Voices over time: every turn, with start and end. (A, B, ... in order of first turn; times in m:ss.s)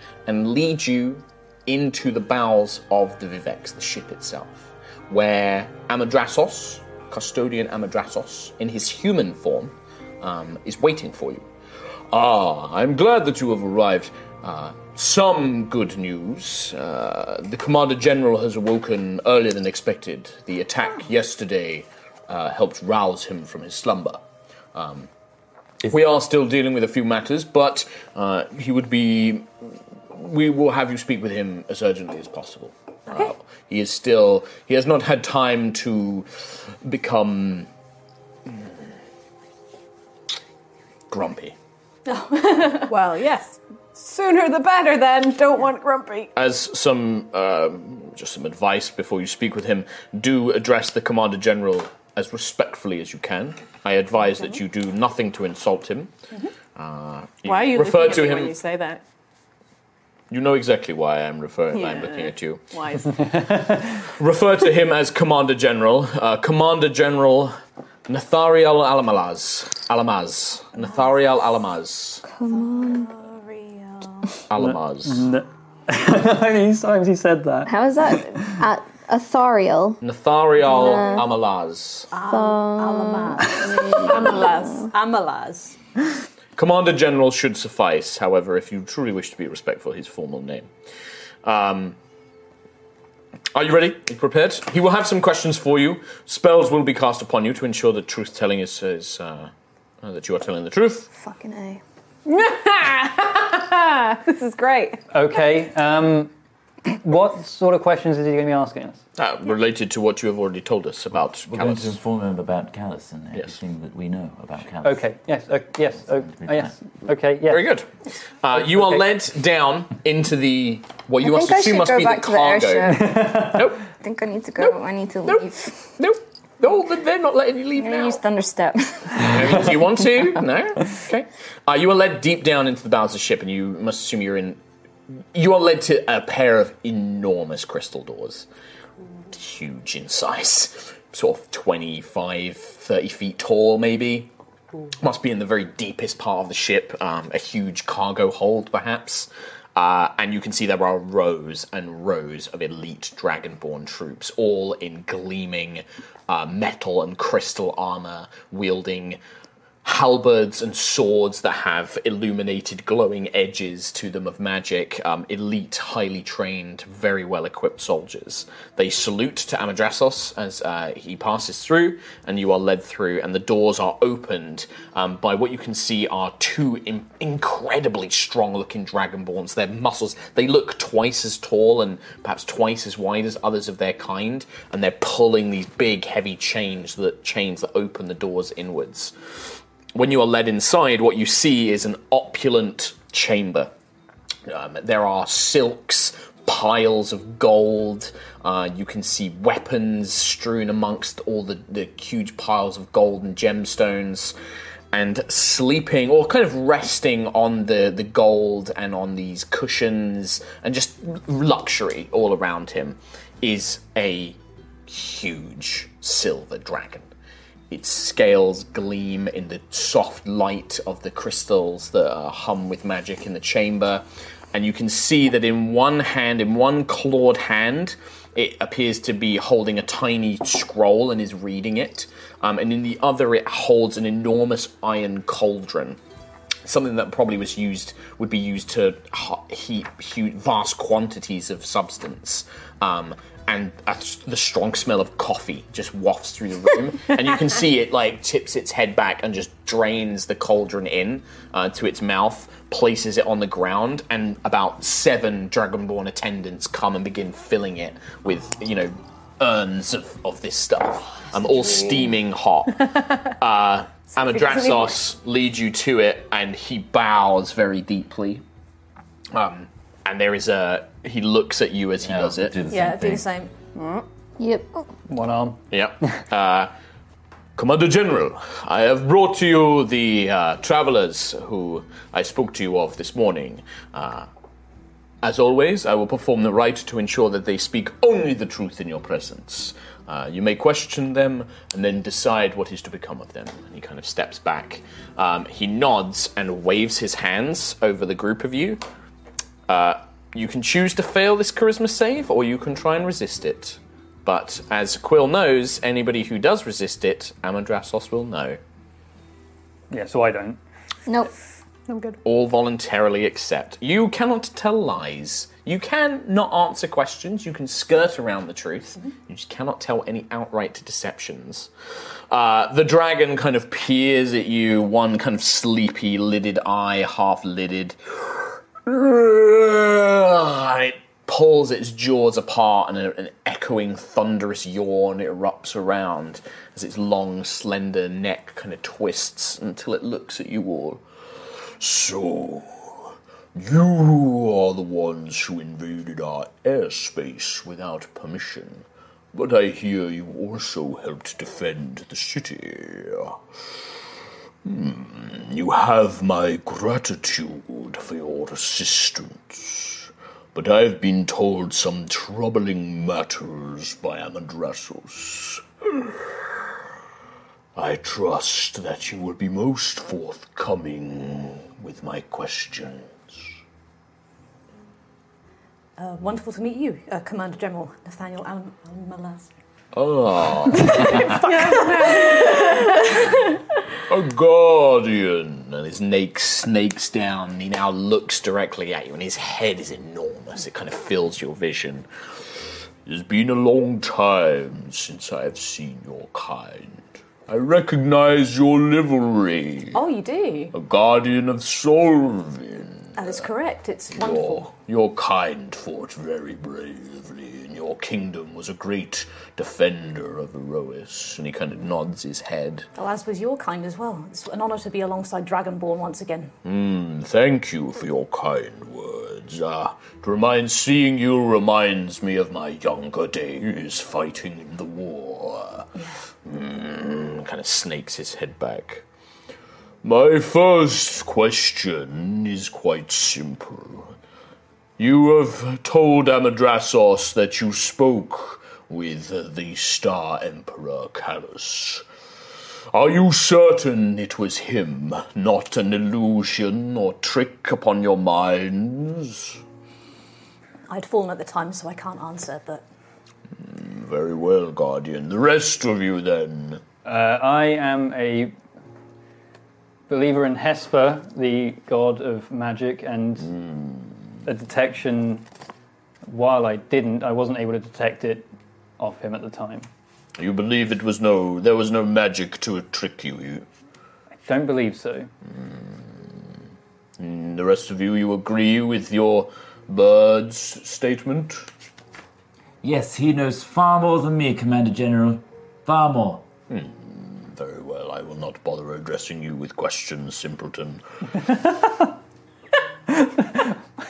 0:00.2-0:11.4 A
0:12.1-0:24.2 A
0:24.7-0:25.1 A
0:25.8-0:29.5 A
0:30.1-0:36.3 A
0:36.8-0:37.7 A
0:41.1-0:41.6 A
0:42.1-0:42.9 B
0:42.5-0:46.3 C
0:46.4-0:56.1 A
0:56.8-0:58.5 A
0:57.4-0:59.0 C
1:00.3-1:02.6 A
1:01.7-1:03.6 C
1:03.3-1:03.9 D
1:04.0-1:12.2 A
1:12.2-1:13.1 E
1:12.5-1:14.4 B
1:14.5-1:15.2 A
1:14.6-1:17.7 D
1:17.6-1:20.0 E
1:20.0-1:22.1 A
1:20.7-1:21.3 E
1:22.1-1:25.8 B
1:22.2-1:24.5 E
1:24.0-1:24.9 C
1:26.6-1:30.7 A
1:31.4-1:32.0 A
1:33.5-1:39.5 A
1:40.0-1:41.1 A
1:41.1-1:41.8 E
1:42.2-1:45.0 C
1:45.1-1:46.3 D
1:46.8-1:49.0 D
1:49.2-1:52.0 A
1:51.5-1:55.0 F
1:54.8-1:57.6 D
1:56.2-1:56.7 F
1:57.4-1:57.9 A
1:58.4-2:03.8 A
1:58.6-1:59.0 D
2:01.2-2:05.9 E
2:02.9-2:03.7 D
2:06.0-2:08.2 A
2:07.8-2:09.8 E
2:09.2-2:14.6 A
2:15.3-2:18.5 A
2:19.3-2:24.3 A
2:25.0-2:39.2 A
2:39.8-3:09.1 A
3:09.9-3:13.7 A
3:14.5-3:24.3 A
3:24.9-3:37.1 A
3:37.7-3:56.0 A
3:56.6-4:28.4 A
4:24.3-4:24.6 C
4:29.3-4:32.6 A
4:32.0-4:33.2 F
4:32.7-4:33.5 B
4:33.8-4:34.0 C
4:34.4-4:34.9 E
4:35.1-4:35.6 D
4:35.7-4:36.7 A
4:37.6-4:44.3 A
4:45.2-4:58.8 A
4:59.7-5:08.6 A
5:09.9-5:10.6 D
5:11.9-5:12.2 C
5:12.2-5:21.7 A
5:22.3-5:41.0 A
5:41.8-5:53.4 A
5:54.6-6:06.6 A
6:07.7-6:13.4 A
6:16.0-6:19.5 B
6:19.9-6:21.3 A
6:20.7-6:23.5 B
6:21.1-6:23.2 C
6:24.1-6:32.0 A
6:33.0-6:40.0 A
6:39.9-6:40.7 B
6:40.7-6:43.2 A
6:43.2-6:44.7 B
6:44.1-6:52.9 A
6:53.0-6:56.5 B
6:56.6-7:05.9 A
7:06.0-7:06.2 B
7:06.4-7:09.0 A
7:10.0-7:14.1 A
7:15.0-7:22.0 A
7:22.9-7:29.6 A
7:30.9-7:32.8 B
7:33.6-7:36.8 A
7:37.0-7:38.5 D
7:40.1-7:43.5 D
7:43.5-7:44.0 A
7:44.4-7:45.4 D
7:46.3-7:48.5 D
7:49.0-7:49.9 D
7:50.4-7:53.6 A
7:54.4-7:55.3 D
7:57.2-8:01.7 A
8:02.8-8:06.5 F
8:06.7-8:11.0 A